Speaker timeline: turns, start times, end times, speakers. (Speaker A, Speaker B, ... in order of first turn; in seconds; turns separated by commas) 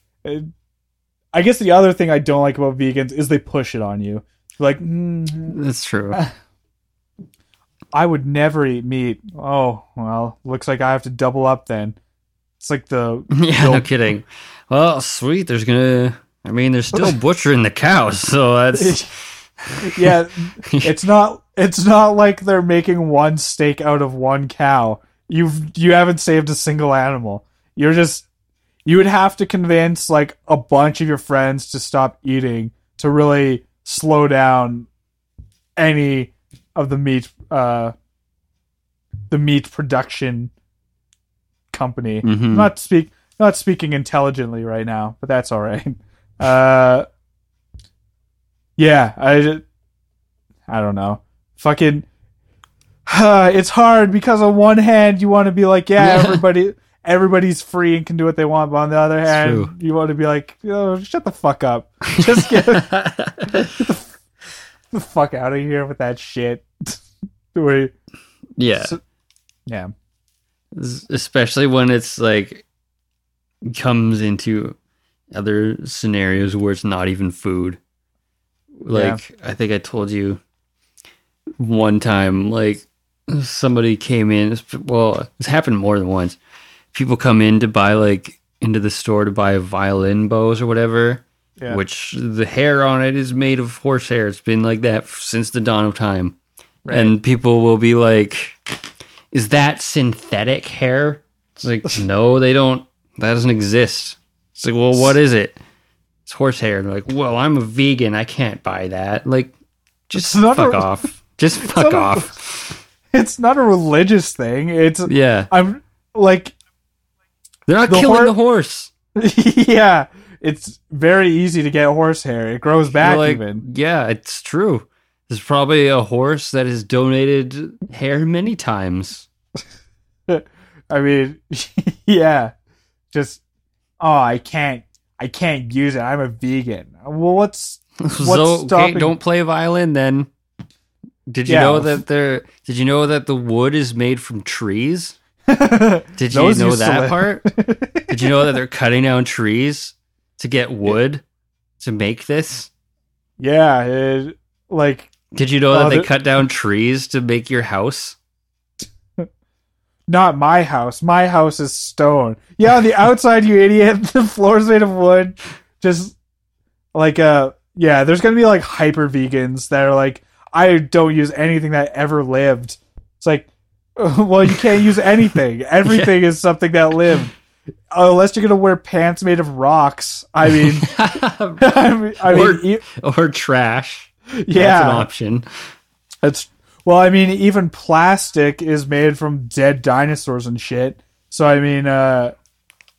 Speaker A: 0.2-0.5, Speaker A: 1.3-6.3, Speaker B: 5.5-6.2, Speaker A: 7.9-12.0, Speaker A: 12.6-13.9, Speaker B: 13.3-20.1, Speaker A: 18.8-19.1, Speaker A: 19.8-28.3, Speaker A: 28.9-34.9, Speaker A: 35.8-37.9, Speaker A: 39.3-40.5, Speaker A: 41.7-47.1, Speaker B: 42.2-42.7, Speaker A: 48.8-49.6, Speaker A: 50.7-52.1, Speaker A: 53.1-62.9, Speaker B: 56.0-56.4, Speaker B: 59.3-59.7, Speaker B: 62.2-63.7, Speaker A: 63.5-64.2, Speaker A: 64.9-67.0, Speaker A: 67.5-67.9, Speaker B: 68.6-69.0, Speaker A: 69.7-69.9, Speaker B: 70.7-72.7, Speaker B: 73.6-74.8, Speaker B: 75.3-77.8, Speaker B: 78.8-80.4, Speaker A: 78.9-79.2, Speaker B: 81.6-86.4, Speaker B: 86.9-96.4, Speaker A: 96.9-97.2, Speaker B: 96.9-98.6, Speaker B: 99.3-105.6, Speaker B: 106.3-109.5, Speaker B: 110.1-112.8, Speaker A: 110.1-110.9, Speaker A: 111.6-112.3, Speaker A: 113.1-116.5, Speaker B: 115.1-115.5, Speaker B: 117.7-118.9, Speaker A: 117.9-118.3, Speaker A: 119.2-123.7, Speaker B: 123.0-129.3, Speaker A: 130.3-132.5, Speaker A: 133.1-133.4, Speaker A: 134.0-139.2, Speaker B: 138.0-140.3, Speaker B: 141.3-145.2, Speaker A: 141.5-142.0, Speaker A: 145.5-148.5, Speaker B: 146.2-147.4, Speaker B: 148.1-151.2, Speaker B: 151.8-152.7, Speaker A: 153.4-155.1, Speaker B: 155.3-158.2, Speaker A: 155.7-156.1, Speaker A: 160.1-166.2, Speaker A: 166.9-177.3, Speaker B: 175.8-176.1, Speaker A: 177.9-181.0, Speaker B: 180.6-181.6, Speaker A: 181.6-182.8, Speaker B: 182.2-185.7, Speaker A: 184.4-185.1, Speaker A: 186.2-192.3